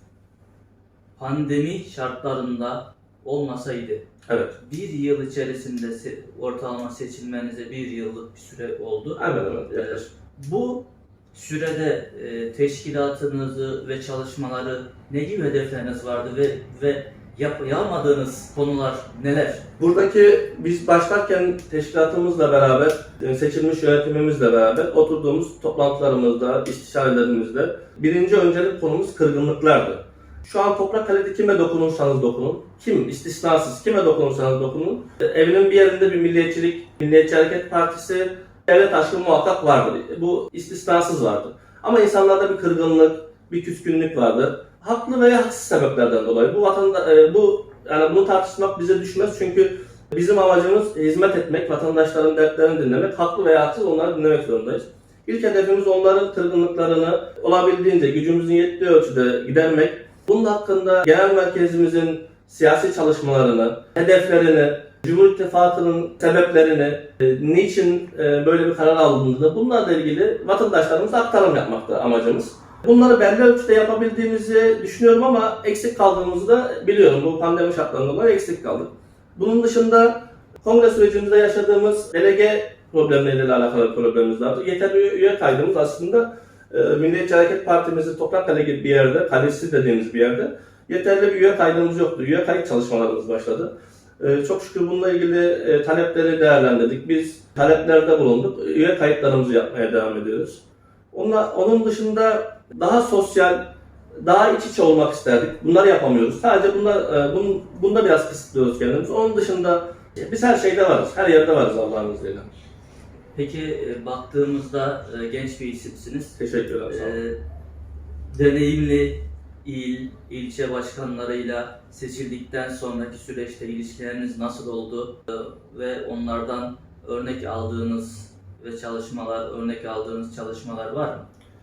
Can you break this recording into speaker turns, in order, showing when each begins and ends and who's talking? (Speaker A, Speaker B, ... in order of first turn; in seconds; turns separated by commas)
Speaker A: 1.2-4.0, Speaker B: 4.3-4.5, Speaker A: 4.6-19.6, Speaker B: 9.2-10.1, Speaker B: 19.8-103.6, Speaker B: 104.2-112.5, Speaker A: 113.3-116.4, Speaker B: 116.4-117.2, Speaker A: 116.9-117.4, Speaker A: 118.3-131.3